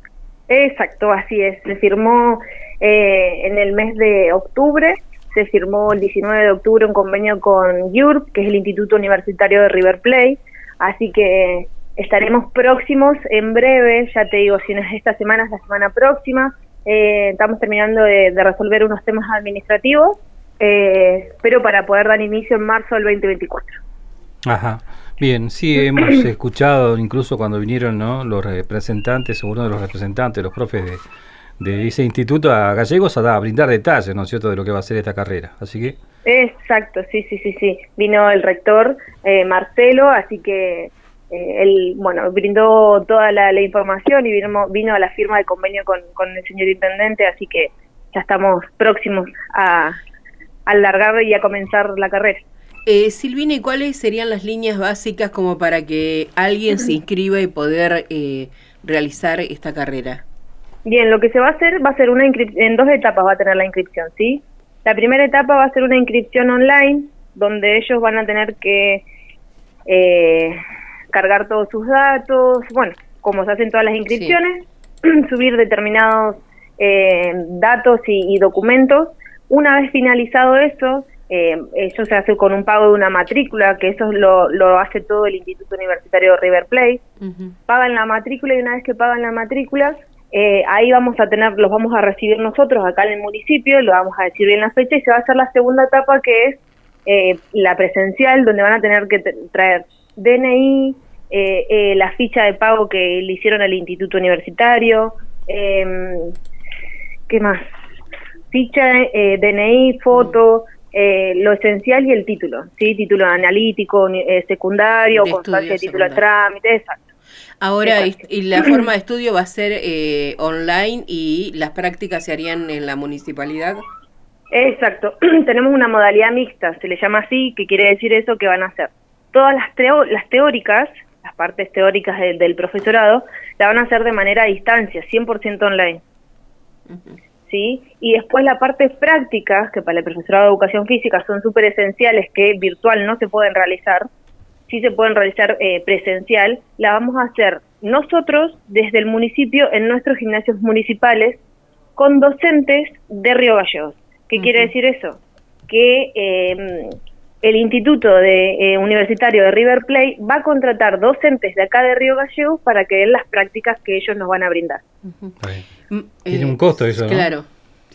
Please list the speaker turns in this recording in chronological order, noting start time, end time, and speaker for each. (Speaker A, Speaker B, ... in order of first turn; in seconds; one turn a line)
Speaker A: 0.5-23.8
Speaker B: 24.4-31.0
Speaker B: 31.6-36.0
Speaker A: 36.2-50.0
Speaker A: 50.7-52.4
Speaker C: 52.9-60.2
Speaker A: 60.9-69.0
Speaker A: 69.9-70.6
Speaker A: 71.1-87.0
Speaker C: 87.2-87.5
Speaker A: 87.7-106.3
Speaker A: 107.3-107.7
Speaker A: 108.5-117.1
Speaker C: 115.1-116.2
Speaker C: 117.6-123.8
Speaker A: 117.9-118.1
Speaker A: 124.5-136.0
Speaker C: 136.9-137.2
Speaker A: 137.5-144.1
Speaker A: 144.7-151.4
Speaker A: 152.0-164.8
Speaker C: 154.4-154.7
Speaker C: 165.9-167.5
Speaker B: 166.3-167.3